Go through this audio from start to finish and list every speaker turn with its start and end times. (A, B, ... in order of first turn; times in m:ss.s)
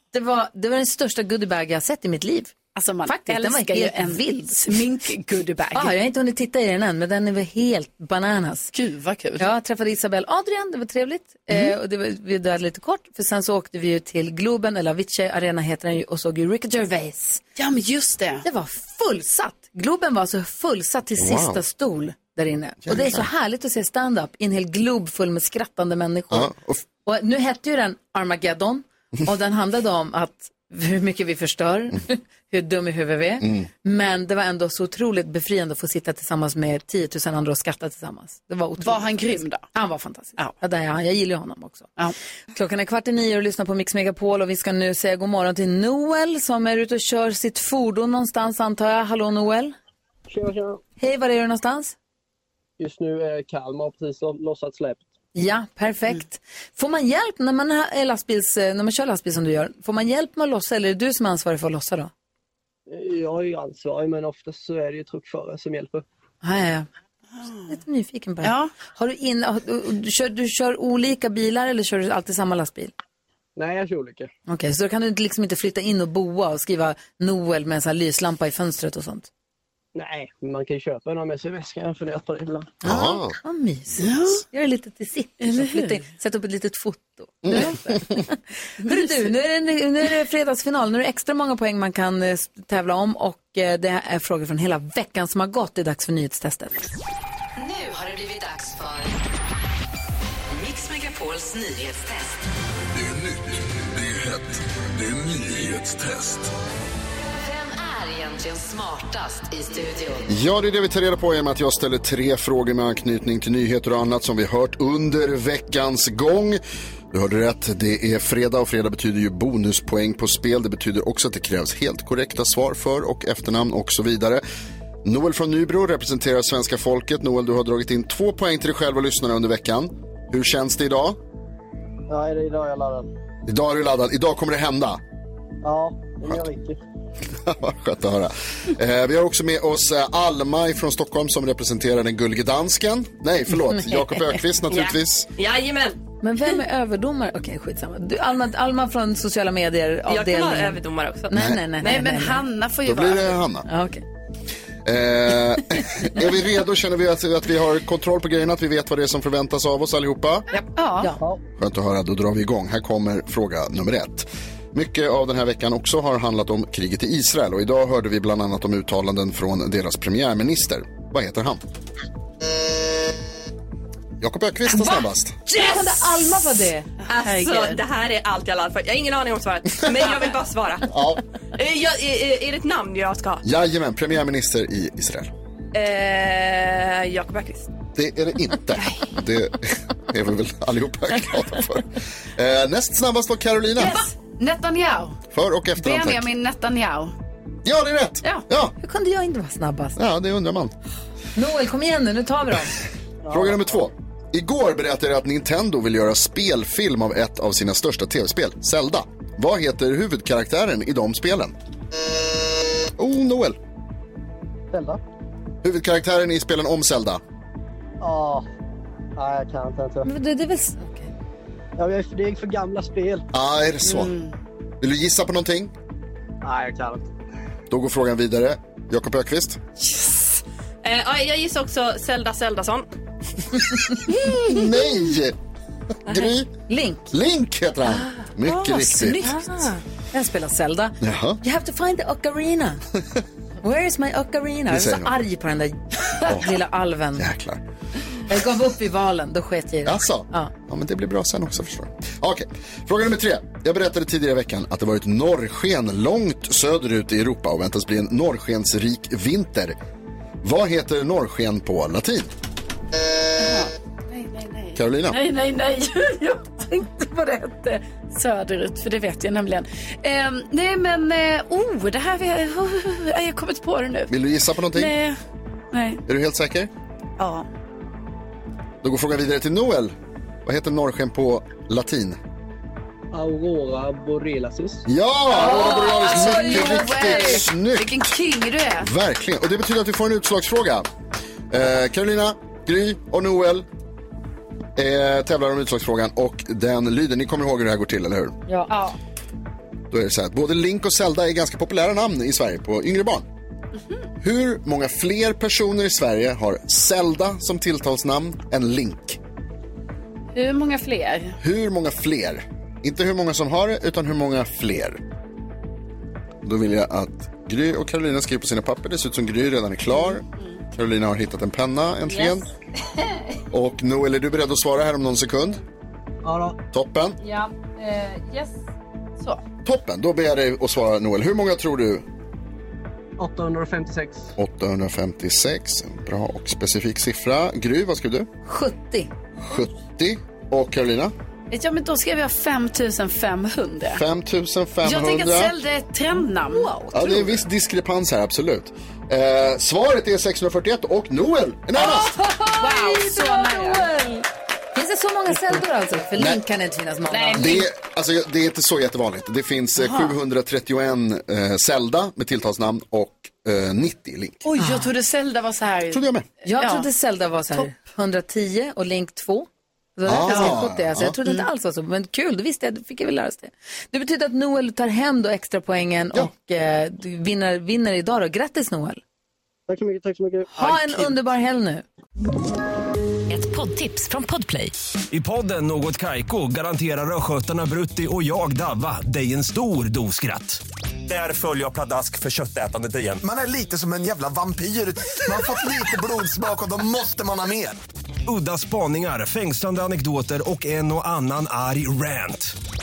0:00.1-0:02.5 A
0:02.8-0:05.9 B
0:03.1-0:04.6 A
0:05.7-0:08.7 A
0:08.7-0:09.5 B
0:09.4-0:17.4 A
0:17.6-0:18.4 B
0:18.4-0:26.5 A
0:21.2-0:21.6 C
0:22.8-0:23.2 C
0:26.3-0:26.8 C
0:27.0-0:41.9 A
0:33.4-0:33.7 C
0:38.8-0:39.6 B
0:42.5-0:49.7 A
0:50.3-0:50.8 D
0:51.0-0:51.9 A
0:52.8-0:55.1 D
0:55.4-1:02.1 A
1:02.9-1:06.0 D
1:06.4-1:06.9 A
1:07.7-1:12.9 A
1:08.4-1:08.7 B
1:13.6-1:14.3 D
1:14.5-1:19.3 A
1:20.0-1:22.8 D
1:22.8-1:36.9 A
1:22.8-1:23.4 C
1:24.0-1:24.4 B
1:25.4-1:25.9 B
1:27.4-1:28.0 C
1:28.9-1:29.1 B
1:37.6-1:39.2 E
1:40.5-1:42.4 E
1:47.4-1:50.3 E
1:50.3-1:56.6 C
1:57.1-2:04.4 C
2:05.0-2:11.2 C
2:12.1-2:13.1 D
2:13.5-2:15.0 C
2:15.6-2:16.8 D
2:17.4-2:25.3 C
2:23.7-2:24.4 A
2:24.7-2:26.0 F
2:26.2-2:32.4 A
2:30.1-2:31.3 F
2:31.3-2:31.7 C
2:31.8-2:33.4 B
2:32.8-2:33.7 C
2:33.7-2:34.0 A
2:34.8-2:40.5 C
2:40.8-2:41.2 B
2:41.6-2:51.6 C
2:54.2-2:55.4 C
2:54.7-2:56.9 A
2:57.1-3:00.9 F
2:57.1-2:57.8 B
3:00.9-3:01.2 C
3:01.6-3:03.4 F
3:03.4-3:05.3 C
3:05.7-3:07.7 F
3:08.0-3:14.0 C
3:13.8-3:15.2 B
3:15.3-3:16.3 C
3:15.8-3:17.1 B
3:17.6-3:18.7 C
3:18.8-3:20.0 A
3:20.0-3:20.7 C
3:21.4-3:22.8 A
3:23.2-3:23.8 D
3:23.3-3:31.6 C
3:33.0-3:33.6 C
3:34.7-3:35.0 D
3:35.6-3:37.2 C
3:38.0-3:38.4 D
3:39.2-3:40.1 D
3:40.0-3:41.1 A
3:41.8-3:43.3 D
3:43.3-3:44.1 C
3:43.8-3:44.3 B
3:44.8-3:45.7 C
3:46.4-3:47.1 D
3:47.7-3:49.6 C
3:49.8-3:52.9 F
3:54.1-3:55.4 C
3:56.1-3:56.5 C
3:56.7-3:57.1 A
3:57.1-3:59.3 C
3:58.5-4:02.8 A
3:59.3-3:59.7 F
4:01.0-4:01.4 C
4:03.6-4:07.3 A
4:04.7-4:05.1 C
4:06.3-4:06.5 C
4:07.2-4:07.6 C
4:08.3-4:10.5 A
4:09.8-4:19.8 C
4:20.4-4:22.3 C
4:23.4-4:34.1 B
4:24.8-4:25.2 C
4:34.1-4:34.9 C
4:34.7-4:35.2 B
4:35.7-4:36.0 B
4:36.1-4:36.7 C
4:37.2-4:37.5 B
4:38.8-4:39.9 C
4:40.4-4:42.2 C
4:43.1-4:44.8 D
4:44.9-4:48.0 C
4:45.3-4:47.4 A
4:45.4-4:48.9 B
4:48.8-4:50.9 C
4:51.5-4:53.6 C
4:54.8-4:58.4 C
4:58.7-4:59.0 B
4:59.9-5:03.3 C
5:04.2-5:09.2 C
5:10.3-5:11.4 B
5:11.4-5:15.0 C
5:16.4-5:20.2 C
5:19.9-5:20.6 B
5:20.7-5:22.5 C
5:23.5-5:25.6 C
5:26.2-5:26.6 D
5:26.7-5:27.2 C
5:27.2-5:28.5 B
5:29.6-5:32.0 C
5:33.2-5:34.3 D
5:34.4-5:38.3 C
5:38.5-5:39.1 A
5:39.4-5:41.1 C
5:41.5-5:44.0 B
5:43.9-5:45.5 C
5:44.8-5:47.3 B
5:46.5-5:46.9 A
5:46.9-5:52.1 C
5:51.8-5:57.6 A
5:51.8-5:53.9 B
5:56.2-5:56.4 C
5:57.1-5:57.6 B
5:57.3-6:04.4 C
5:59.8-6:00.1 B
6:04.4-6:06.9 B
6:04.6-6:04.9 A
6:05.9-6:06.3 C
6:06.5-6:19.0 A
6:10.0-6:11.2 C
6:10.2-6:10.6 B
6:19.7-6:21.2 D
6:20.6-6:21.8 A
6:23.3-6:24.7 E
6:25.1-6:33.2 G
6:33.2-6:37.8 H
6:38.3-6:42.6 G